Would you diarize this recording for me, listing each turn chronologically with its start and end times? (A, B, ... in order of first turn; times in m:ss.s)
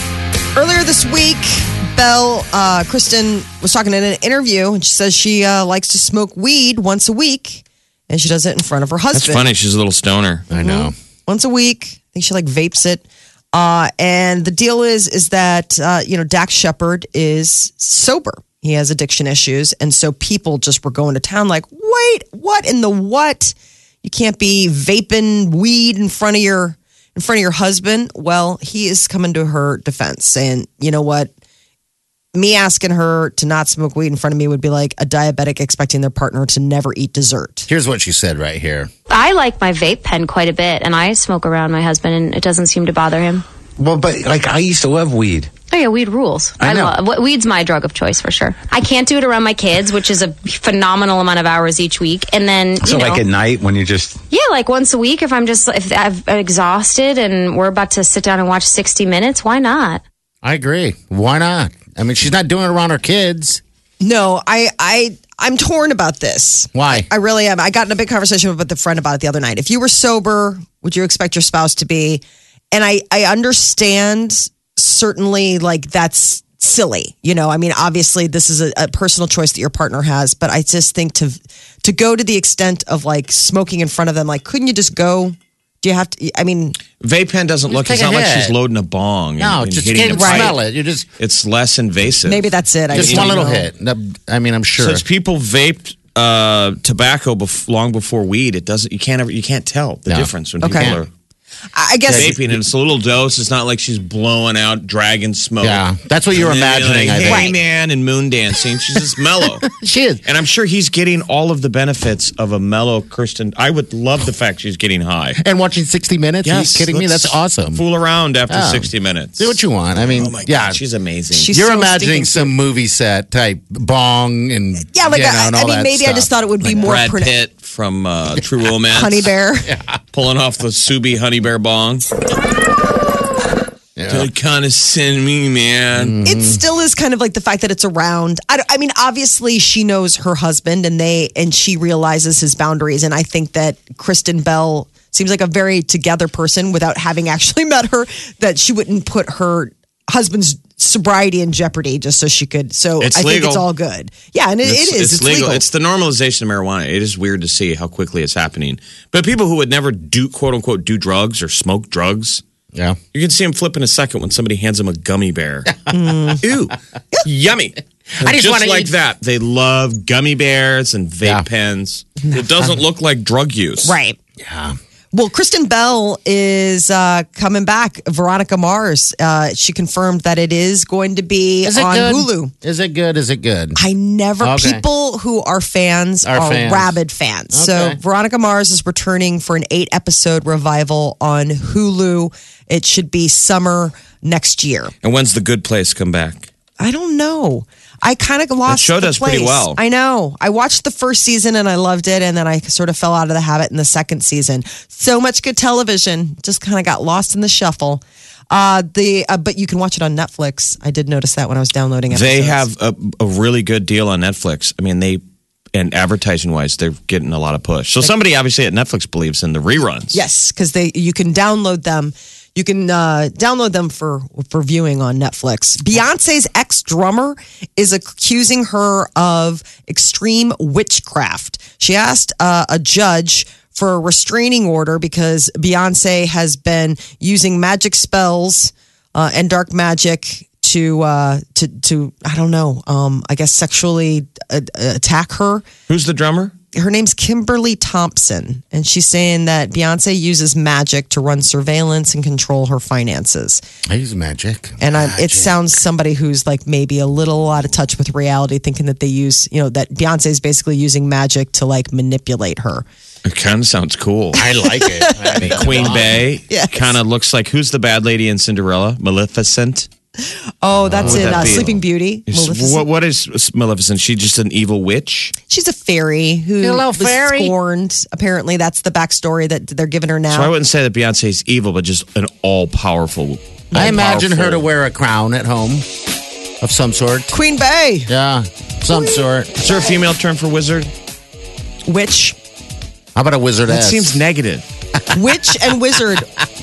0:00.5-0:09.4 A
0:09.1-0:10.5 B
0:10.5-0:10.9 C
0:10.6-0:31.3 A
0:32.4-0:37.7 A
0:37.7-0:38.9 C
0:39.1-0:43.4 D
0:43.8-0:45.5 E
0:45.7-0:53.2 D
0:46.6-0:47.0 C
0:52.8-0:54.2 E
0:54.3-1:00.0 D
1:00.4-1:03.6 C
1:04.0-1:26.8 A
1:06.7-1:07.1 C
1:27.0-1:30.6 B
1:27.7-1:28.6 C
1:29.4-1:31.1 C
1:30.1-1:30.5 A
1:31.2-1:33.4 B
1:32.2-1:33.7 A
1:32.9-1:35.0 C
1:34.8-1:41.1 B
1:40.1-1:41.0 C
1:40.6-1:40.9 A
1:41.7-1:42.3 A
1:42.1-1:42.6 C
1:42.1-1:49.7 B
1:45.6-1:47.5 C
1:47.2-1:47.6 A
1:49.4-1:50.2 C
1:50.2-1:55.4 B
1:55.4-1:57.8 C
1:56.4-2:01.5 B
1:58.5-2:00.8 C
2:01.3-2:02.5 A
2:01.5-2:06.3 C
2:04.9-2:07.3 A
2:06.6-2:09.3 B
2:08.9-2:09.7 A
2:09.7-2:10.0 C
2:10.1-2:12.0 B
2:14.0-2:14.3 C
2:14.1-2:16.2 B
2:15.9-2:16.6 C
2:16.2-2:35.6 A
2:33.0-2:33.7 B
2:34.6-2:42.4 B
2:43.1-2:45.8 B
2:45.9-2:46.4 A
2:46.4-2:53.9 B
2:48.2-2:48.9 C
2:53.8-2:54.2 A
2:54.4-2:54.8 C
2:55.1-3:02.5 A
3:01.6-3:03.8 C
3:03.8-3:14.9 A
3:04.4-3:04.8 C
3:06.2-3:07.0 C
3:07.5-3:08.0 C
3:15.0-3:16.5 B
3:16.8-3:32.6 A
3:18.7-3:19.8 B
3:32.1-3:35.2 B
3:35.7-3:40.2 B
3:40.1-4:05.7 A
4:05.9-4:06.5 B
4:06.7-4:13.6 A
4:13.9-4:15.6 C
4:14.8-4:22.8 A
4:23.2-4:24.4 B
4:24.3-4:26.2 C
4:24.4-4:26.9 A
4:25.4-4:29.9 B
4:30.6-4:32.8 A
4:30.9-4:31.8 C
4:31.0-4:35.3 B
4:35.5-4:40.5 A
4:36.6-4:37.6 C
4:40.3-4:44.7 B
4:43.7-4:45.9 C
4:46.6-4:47.3 C
4:47.3-4:48.1 A
4:48.1-4:49.6 C
4:49.6-4:50.9 B
4:51.9-4:52.4 A
4:53.2-4:54.2 C
4:53.7-4:54.7 B
4:55.1-4:56.3 A
4:55.2-4:55.7 C